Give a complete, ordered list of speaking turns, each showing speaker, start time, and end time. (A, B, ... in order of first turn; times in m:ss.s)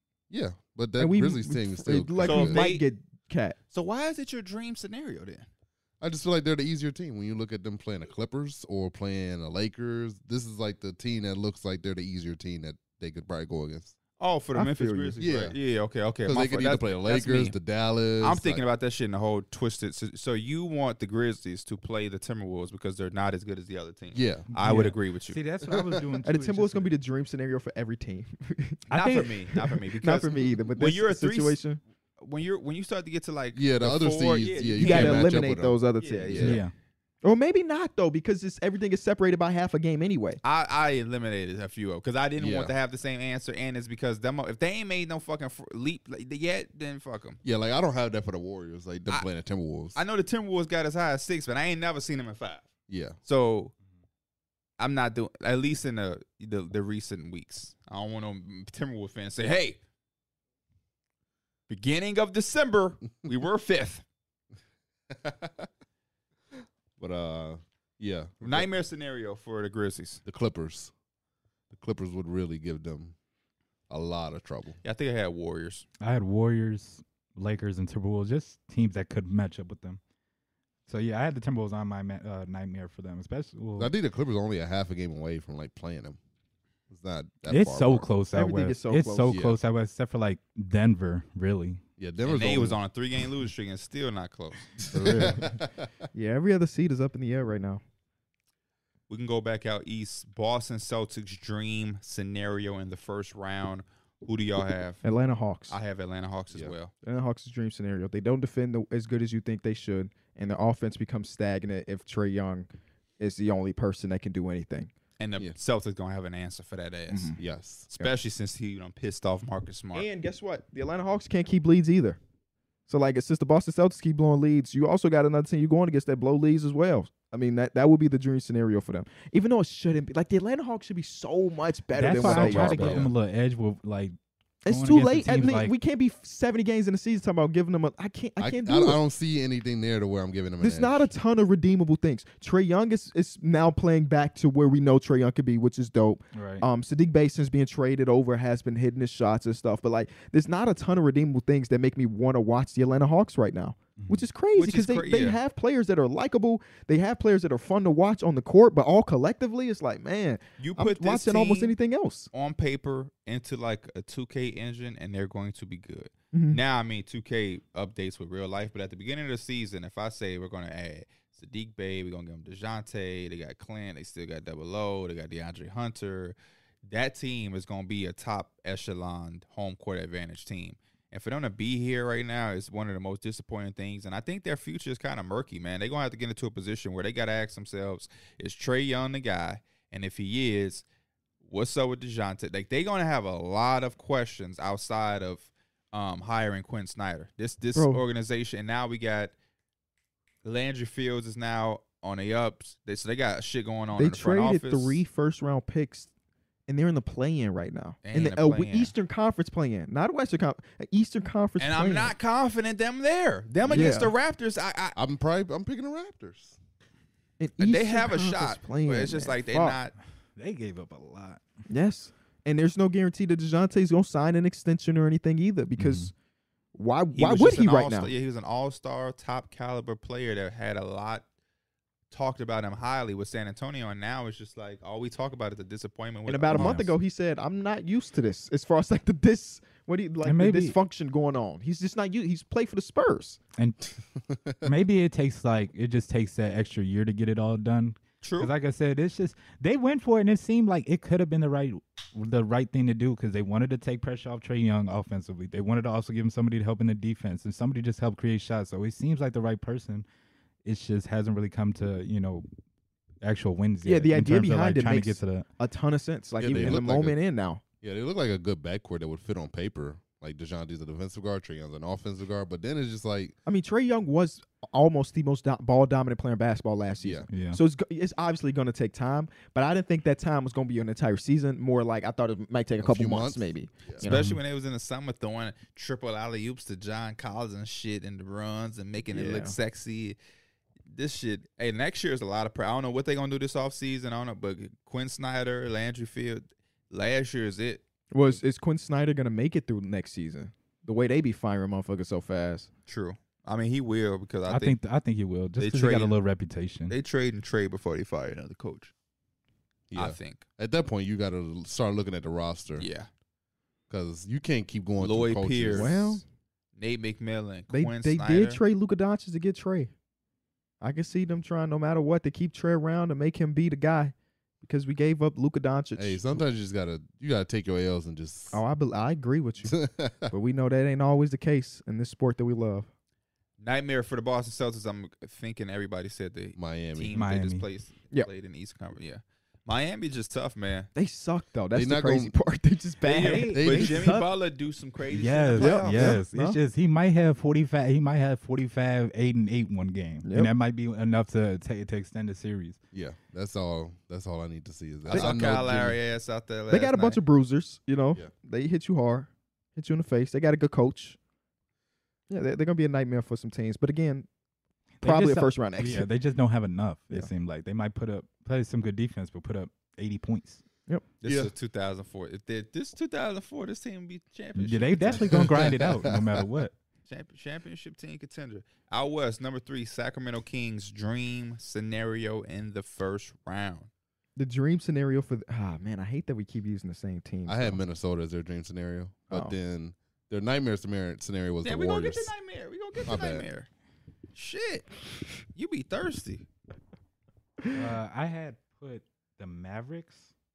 0:00.3-0:02.6 A
0:01.0-0:03.6 B
0:02.2-0:02.8 C
0:03.7-0:05.4 C
0:06.0-0:13.9 A
0:14.2-0:17.6 C
0:14.5-0:15.2 B
0:15.2-0:15.6 A
0:16.2-0:18.6 A
0:18.2-0:25.4 C
0:24.1-0:24.5 A
0:24.5-0:26.9 D
0:25.6-0:26.0 A
0:26.2-0:31.8 B
0:28.9-0:29.3 D
0:28.9-0:31.6 C
0:32.2-0:35.5 C
0:33.5-0:36.6 A
0:34.8-0:36.6 B
0:36.0-0:36.6 C
0:36.4-0:36.7 D
0:37.2-0:40.4 B
0:40.4-0:47.4 C
0:42.4-0:42.7 A
0:47.4-0:50.0 A
0:49.9-0:52.7 C
0:52.9-0:53.2 A
0:53.2-0:53.7 C
0:54.8-0:59.8 C
1:01.7-1:04.0 C
1:05.1-1:05.7 A
1:07.0-1:08.7 A
1:08.4-1:10.2 C
1:10.2-1:10.9 A
1:11.7-1:13.1 A
1:13.9-1:14.8 A
1:14.8-1:15.8 C
1:16.0-1:20.0 D
1:20.9-1:23.9 D
1:23.8-1:26.2 A
1:26.9-1:28.1 A
1:27.5-1:31.8 D
1:28.3-1:29.4 B
1:29.3-1:29.6 A
1:32.0-1:32.8 A
1:32.2-1:34.7 C
1:34.8-1:35.9 A
1:34.9-1:35.5 D
1:36.1-1:37.8 B
1:39.1-1:45.0 C
1:45.0-1:45.8 B
1:45.7-1:46.9 C
1:47.0-1:52.7 B
1:53.2-1:54.9 B
1:55.2-1:57.4 C
1:57.1-1:57.4 B
1:57.4-1:57.9 A
1:57.9-2:00.1 C
1:59.9-2:02.2 B
2:02.9-2:13.1 B
2:11.9-2:14.1 D
2:12.1-2:13.1 C
2:14.6-2:19.0 B
2:14.7-2:15.7 D
2:18.4-2:21.1 A
2:20.6-2:42.3 B
2:26.3-2:26.6 D
2:34.0-2:34.2 D
2:34.6-2:35.4 C
2:40.6-2:41.8 C
2:42.3-3:10.8 C
2:46.3-2:46.6 B
3:11.4-3:19.3 C
3:17.7-3:18.0 B
3:20.4-3:25.0 C
3:23.9-3:26.1 B
3:26.7-3:32.1 B
3:28.0-3:28.9 C
3:31.6-3:35.0 C
3:33.6-3:33.9 A
3:33.7-3:34.1 B
3:34.9-3:36.6 A
3:37.4-3:39.8 B
3:37.6-3:39.9 C
3:40.4-3:41.4 D
3:41.7-3:46.1 B
3:45.8-3:46.1 D
3:46.7-3:48.1 B
3:47.1-3:51.2 C
3:52.1-3:56.8 C
3:56.3-4:03.4 B
3:56.5-3:56.8 A
3:56.5-3:56.9 D
4:00.2-4:00.7 D
4:03.6-4:03.9 D
4:04.3-4:04.6 A
4:04.6-4:20.0 D
4:08.2-4:08.5 C
4:20.6-4:22.5 D
4:23.2-4:25.4 D
4:23.8-4:27.6 B
4:26.4-4:27.2 A
4:26.5-4:26.8 D
4:27.8-4:33.3 A
4:33.4-4:44.2 B
4:37.0-4:37.2 A
4:37.3-4:37.6 D
4:42.8-4:44.0 A
4:44.0-4:50.2 C
4:44.0-4:44.4 D
4:49.1-4:49.6 B
4:50.9-4:57.8 C
4:58.1-5:02.7 B
5:02.9-5:04.8 C
5:04.5-5:06.9 D
5:05.6-5:06.2 C
5:06.9-5:08.9 C
5:09.9-5:12.9 A
5:09.9-5:10.4 C
5:12.8-5:13.1 C
5:13.9-5:16.2 A
5:15.0-5:16.0 C
5:15.7-5:16.2 B
5:16.8-5:18.6 C
5:17.7-5:19.9 B
5:20.8-5:26.4 B
5:26.0-5:28.6 A
5:28.5-5:29.8 B
5:29.6-5:30.3 A
5:30.3-5:32.9 B
5:33.6-5:40.9 C
5:36.6-5:37.2 A
5:37.1-5:37.6 D
5:40.9-5:43.6 B
5:41.7-5:42.4 A
5:43.0-5:46.2 C
5:43.1-5:44.3 D
5:43.5-5:44.2 A
5:45.1-5:52.8 D
5:45.5-5:46.6 B
5:50.2-5:50.5 B
5:52.9-5:56.0 A
5:55.0-5:57.2 C
5:55.1-5:55.4 B
5:56.7-6:01.2 B
6:02.3-6:04.3 B
6:05.0-6:10.6 D
6:05.0-6:06.1 B
6:11.2-6:15.7 C
6:11.2-6:11.5 A
6:14.6-6:16.7 D
6:15.1-6:16.4 A
6:17.1-6:23.9 C
6:24.4-6:27.8 B
6:27.5-6:32.3 A
6:29.3-6:29.5 B
6:31.6-6:33.7 C
6:33.0-6:33.5 A
6:34.3-6:35.0 C
6:35.5-6:36.4 C
6:37.7-6:40.3 D